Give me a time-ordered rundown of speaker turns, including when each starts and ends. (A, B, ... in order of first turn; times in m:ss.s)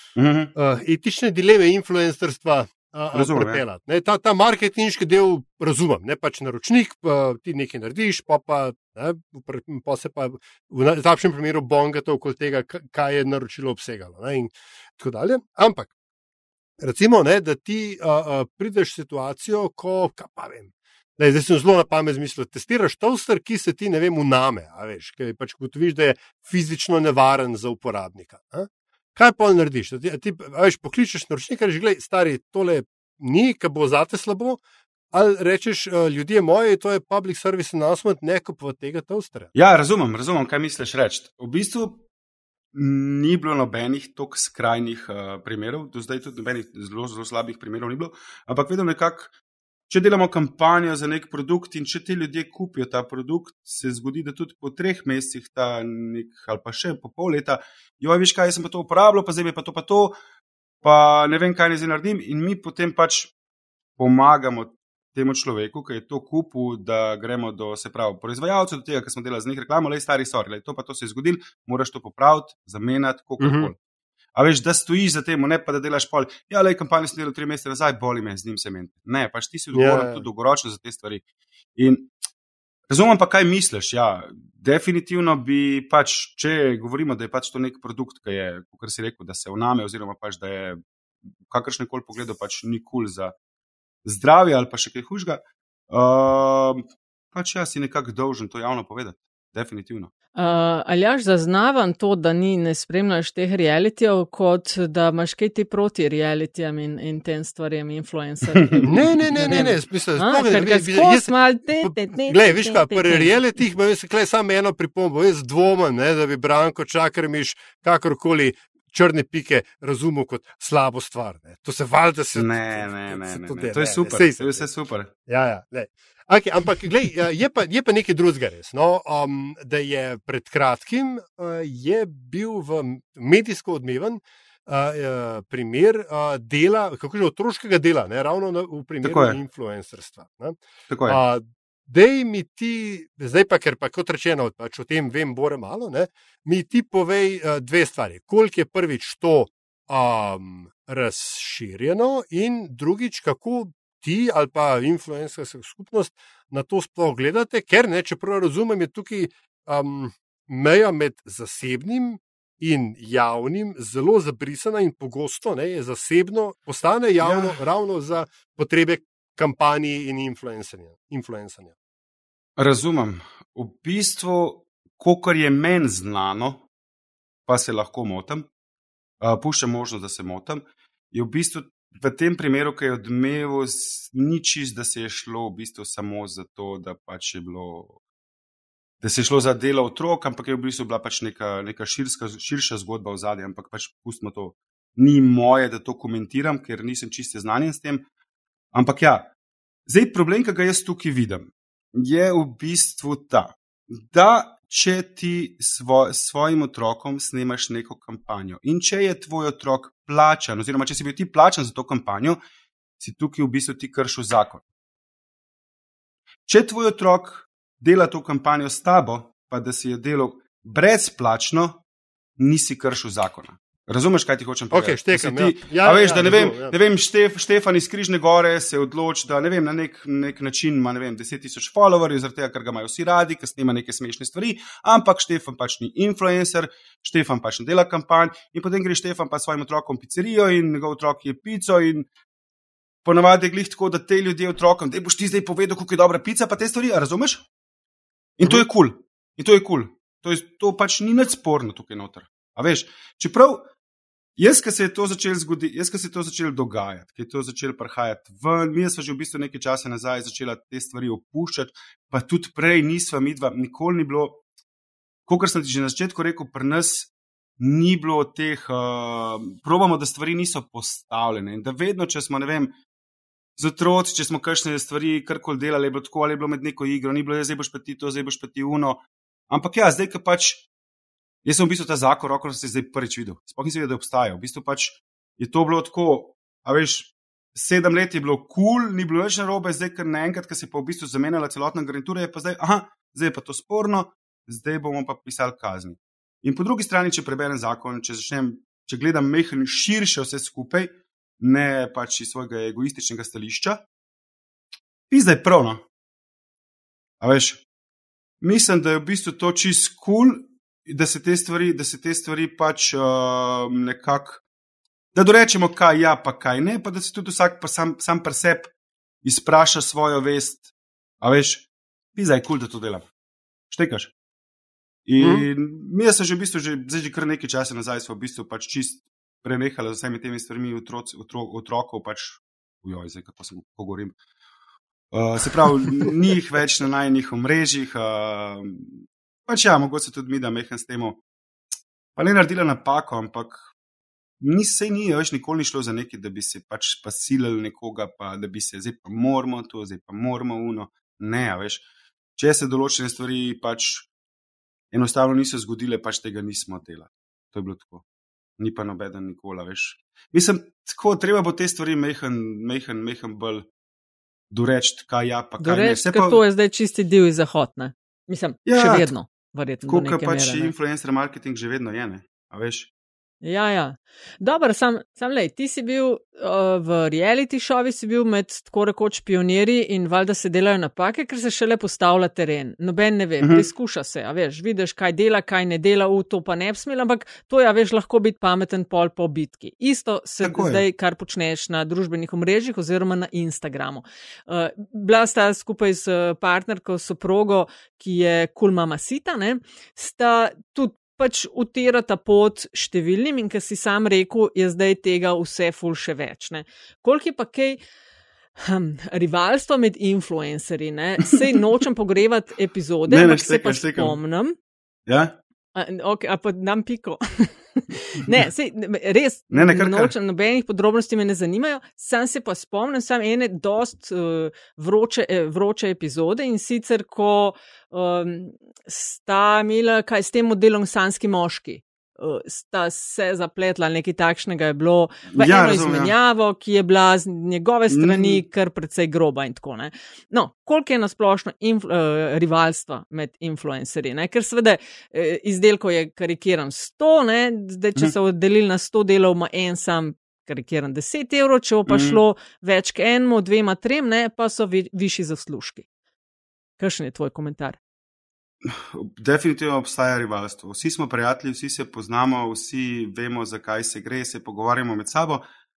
0:00.2-0:00.5 A
0:00.5-0:15.9 B
0:03.1-0:03.6 A
0:16.8-0:34.6 B
0:35.1-0:39.5 B
0:39.5-0:42.0 A
0:42.7-0:49.3 A
0:49.9-1:00.1 A
1:00.8-1:03.3 A
1:04.0-1:13.8 A
1:13.4-1:13.7 B
1:14.3-1:21.2 A
1:19.7-1:20.2 B
1:21.8-1:22.1 A
1:22.9-1:30.8 A
1:31.4-1:33.3 A
1:34.0-1:40.1 A
1:40.3-1:53.4 C
1:48.7-1:49.6 A
1:48.8-2:04.7 B
2:02.3-2:05.1 A
2:05.2-2:51.7 B
2:19.0-2:19.4 A
2:20.9-2:21.2 A
2:47.2-2:47.6 A
2:52.6-2:56.7 A
2:57.5-2:58.5 A
2:59.2-3:08.0 A
3:09.0-3:18.0 A
3:18.7-3:19.3 A
3:19.9-3:32.4 A
3:33.0-3:34.6 A
3:36.5-3:41.8 A
3:42.4-4:02.1 A
3:44.7-3:46.8 B
4:03.0-4:07.4 A
4:08.4-4:13.7 A
4:14.4-4:24.4 A
4:25.3-4:32.7 A
4:33.6-4:40.7 A
4:41.4-5:03.8 A
5:05.1-5:05.8 A
5:07.2-5:07.6 A
5:08.4-5:14.4 A
5:15.1-5:18.7 A
5:19.2-5:20.7 A
5:21.2-5:23.0 A
5:23.7-5:24.1 A
5:25.0-5:34.1 A
5:25.2-5:25.4 B
5:35.1-5:41.2 A
5:42.2-5:43.7 A
5:44.4-5:51.8 A
5:52.4-5:54.1 A
5:54.9-5:58.0 A
5:58.6-6:03.7 A
6:04.5-6:06.4 A
6:05.6-6:10.7 C
6:08.7-6:09.1 A
6:09.8-6:12.9 A
6:13.4-6:47.8 C
6:23.4-6:23.7 A
6:30.4-6:30.8 A
6:48.6-6:54.6 C
6:53.1-6:54.2 A
6:55.1-6:55.4 A
6:55.7-7:35.8 C
6:59.5-7:00.1 A
7:15.3-7:16.1 A
7:17.9-7:18.4 A
7:31.9-7:32.2 A
7:36.8-7:37.8 C
7:38.6-7:45.4 A